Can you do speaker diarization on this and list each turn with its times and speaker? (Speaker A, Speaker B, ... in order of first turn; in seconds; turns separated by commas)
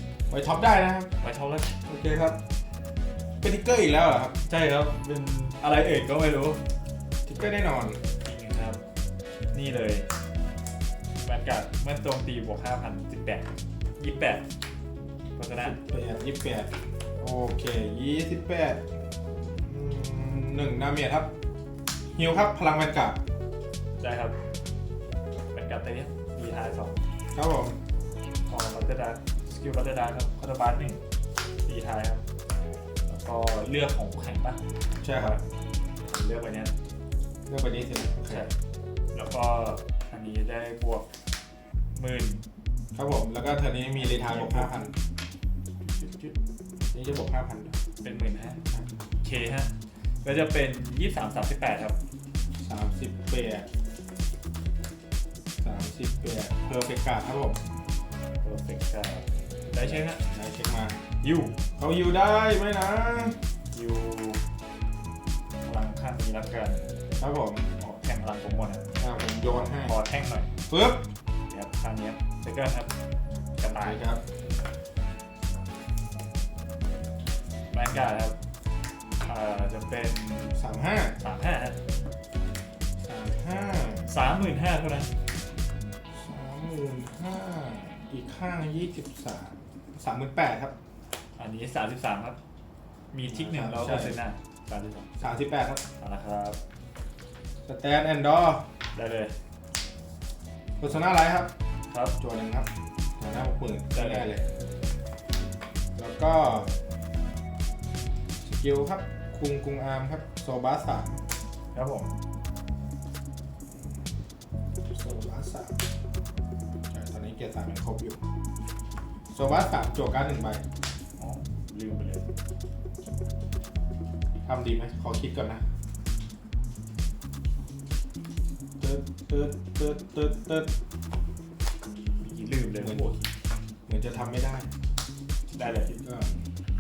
Speaker A: 0.3-1.1, Speaker B: 1.2-1.8, Speaker A: 1.9-2.4, Speaker A: 3.4-4.4, Speaker B: 4.5-6.6, Speaker A: 7.2-8.0, Speaker B: 8.2-8.8, Speaker B: 9.5-10.1, Speaker B: 11.2-14.4, Speaker B: 15.4-15.8, Speaker A: 15.6-18.9, Speaker A: 19.6-21.3, Speaker A: 22.2-23.2, Speaker B: 24.0-24.4, Speaker B: 25.5-27.0, Speaker A: 27.3-27.8, Speaker B: 28.5-31.0, Speaker B: 31.7-32.2, Speaker B: 33.1-35.4, Speaker A: 35.0-35.4, Speaker B: 36.0-36.7, Speaker A: 37.5-38.5, Speaker B: 38.3-38.5, Speaker B: 39.1-41.1, Speaker B: 42.0-42.4, Speaker A: 42.9-44.9, Speaker B: 44.0-44.7, Speaker B: 45.8-46.4, Speaker A: 46.9-47.8, Speaker B: 48.0-48.6, Speaker B: 49.2-49.7, Speaker B: 50.2-52.0, Speaker A: 52.6-53.7, Speaker A: 55.6-57.6, Speaker B: 58.4-60.2, Speaker A: 59.8-61.0, Speaker B: 61.2-61.6, Speaker A: 61.8-63.4, Speaker B: 63.7-64.4, Speaker B: 65.7-66.9, Speaker A: 67.2-67.7, Speaker B: 67.8-68.9, Speaker A: 69.0-69.9, Speaker B: 69.8-70.5, Speaker A: 70.7-71.1, Speaker B: 71.5-72.9, Speaker B: 73.6-74.0, Speaker A: 73.8-74.2, Speaker B: 77.7-78.4, Speaker B: 79.2-80.6, Speaker A: 80.6-81.2, Speaker B: 81.2-81.8, Speaker A: 83.0-84.1, Speaker B: 84.0-85.1, Speaker A: 86.1-90.8, Speaker B: 91.4-92.4, Speaker B: 93.1-95.2, Speaker A: 93.3-94.2, Speaker A: 95.2-95.8, Speaker B: 96.0-96.6, Speaker A: 97.7-98.6, Speaker B: 98.9-99.3, Speaker A: 100.8-101.5, Speaker B: 101.9-102.2, Speaker A: 102.2-104.4, Speaker B: 103.9-104.3, Speaker A: 106.0-106.7, Speaker A: 108.4-111.2, Speaker B: 111.7-112.1, Speaker A: 114.9-115.8, Speaker A: 116.9-118.2, Speaker A: 119.3-120.6, Speaker B: 121.2-122.3, Speaker A: 124.5-125.6, Speaker A: 128.8-130.7, Speaker B: 132.2-133.3, Speaker A: 132.8-133.0, Speaker A: 133.9-134.7, Speaker B: 135.5-135.9, Speaker A: 135.9-136.4